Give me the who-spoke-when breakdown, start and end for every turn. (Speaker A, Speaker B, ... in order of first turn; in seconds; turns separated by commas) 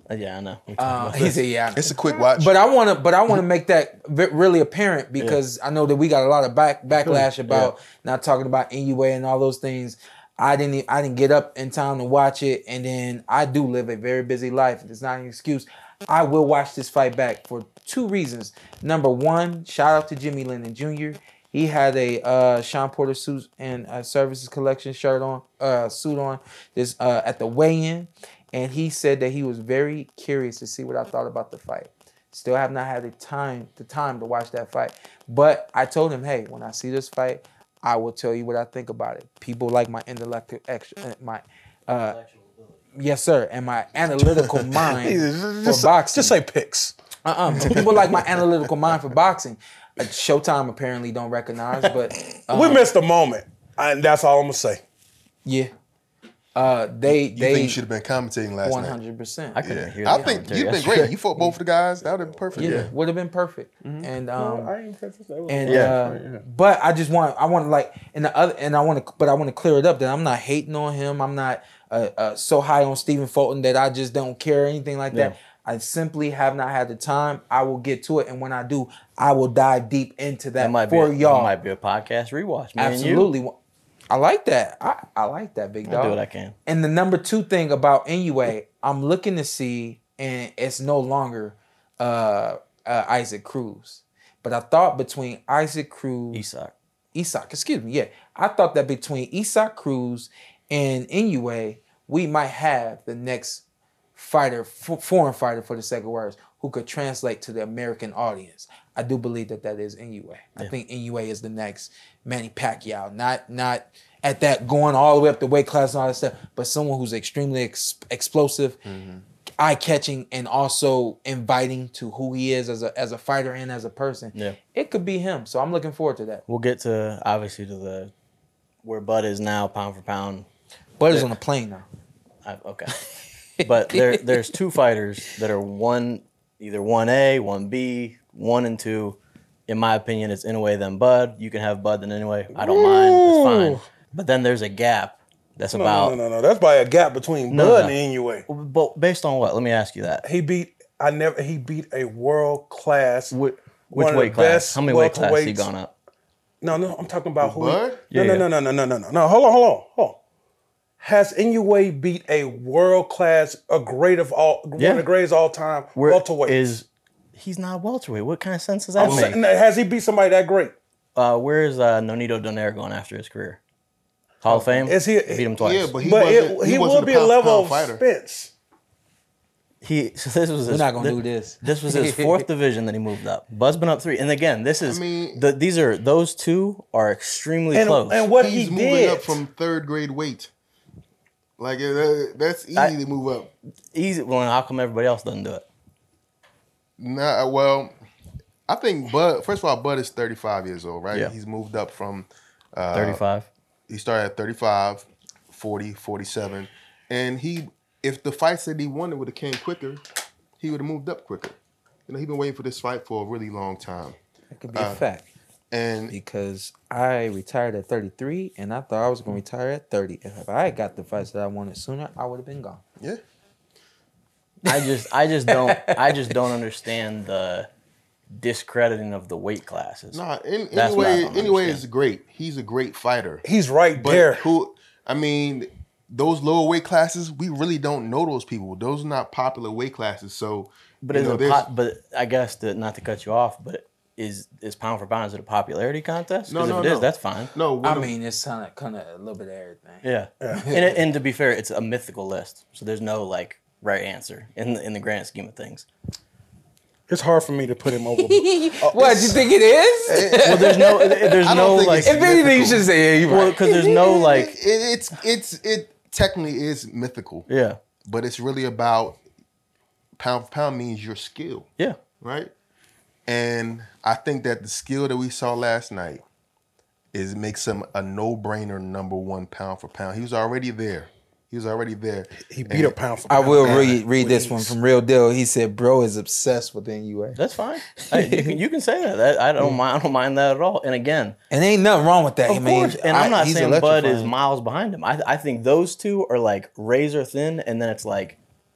Speaker A: 0.1-1.3, Speaker B: 0.8-42.2, Speaker C: 1.7-2.5, Speaker A: 7.5-7.7, Speaker A: 42.1-42.8, Speaker B: 43.0-46.4, Speaker D: 44.8-47.0, Speaker B: 47.2-52.8, Speaker D: 47.5-48.3, Speaker D: 52.5-54.8, Speaker B: 55.5-55.7, Speaker B: 56.5-57.8, Speaker C: 57.1-59.0, Speaker B: 58.6-60.3, Speaker A: 59.6-61.1, Speaker C: 59.6-62.9, Speaker D: 62.0-62.5, Speaker B: 62.6-64.7, Speaker A: 62.6-62.9, Speaker C: 63.8-64.1, Speaker D: 64.4-66.4, Speaker B: 65.5-81.5, Speaker A: 65.7-65.9, Speaker A: 80.6-83.3, Speaker B: 82.8-83.5, Speaker B: 84.1-96.4, Speaker A: 85.9-86.6, Speaker A: 96.3-96.7, Speaker B: 97.2-103.6, Speaker B: 104.2-118.8, Speaker C: 118.9-119.2, Speaker B: 119.6-126.4, Speaker A: 126.5-128.1, Speaker A: 128.8-130.5, Speaker B: 131.0-131.9, Speaker A: 132.4-133.0, Speaker A: 133.6-139.2, Speaker B: 133.6-134.2, Speaker A: 139.7-146.2, Speaker D: 142.5-143.8, Speaker D: 145.7-148.4, Speaker A: 147.5-148.0, Speaker A: 148.5-150.2, Speaker D: 150.2-153.3, Speaker A: 153.3-155.9, Speaker D: 153.9-155.7, Speaker D: 156.6-160.2, Speaker C: 157.4-158.0, Speaker A: 158.1-158.5, Speaker D: 161.0-166.7, Speaker A: 164.8-165.1, Speaker A: 166.0-169.4, Speaker D: 169.0-170.7, Speaker C: 169.0-169.3, Speaker A: 171.2-173.6, Speaker A: 174.4-175.9, Speaker D: 174.5-178.5, Speaker C: 175.6-178.0, Speaker A: 179.8-188.2, Speaker B: 180.7-182.4, Speaker C: 184.9-185.4, Speaker D: 187.7-189.4, Speaker C: 188.4-190.5, Speaker C: 191.6-193.5, Speaker A: 193.9-195.7, Speaker C: 197.0-197.9, Speaker C: 198.7-203.2, Speaker A: 202.9-203.5, Speaker C: 203.9-210.0, Speaker C: 210.6-214.2, Speaker B: 214.5-215.2, Speaker C: 214.8-215.0, Speaker C: 215.7-216.2, Speaker B: 216.1-222.8, Speaker A: 224.7-227.7, Speaker B: 225.5-226.3, Speaker A: 228.3-230.2, Speaker C: 230.1-241.7, Speaker A: 230.7-231.8, Speaker D: 233.4-234.5, Speaker A: 241.0-247.5, Speaker C: 246.5-248.1, Speaker B: 247.8-251.0, Speaker A: 250.0-255.9, Speaker D: 250.4-250.7, Speaker D: 257.1-259.4, Speaker B: 258.2-261.4, Speaker C: 260.1-260.7, Speaker A: 260.4-262.1, Speaker C: 261.4-262.9, Speaker B: 262.0-263.9, Speaker A: 263.3-264.5, Speaker C: 263.8-267.5, Speaker A: 267.5-267.8, Speaker C: 268.1-269.2, Speaker C: 270.2-271.7, Speaker C: 272.2-272.5, Speaker C: 273.3-276.2, Speaker C: 277.1-283.0, Speaker D: 282.4-284.8, Speaker B: 283.3-287.4, Speaker C: 283.6-283.9, Speaker A: 287.4-291.4, Speaker B: 288.0-288.6, Speaker B: 291.5-294.3, Speaker A: 292.5-298.4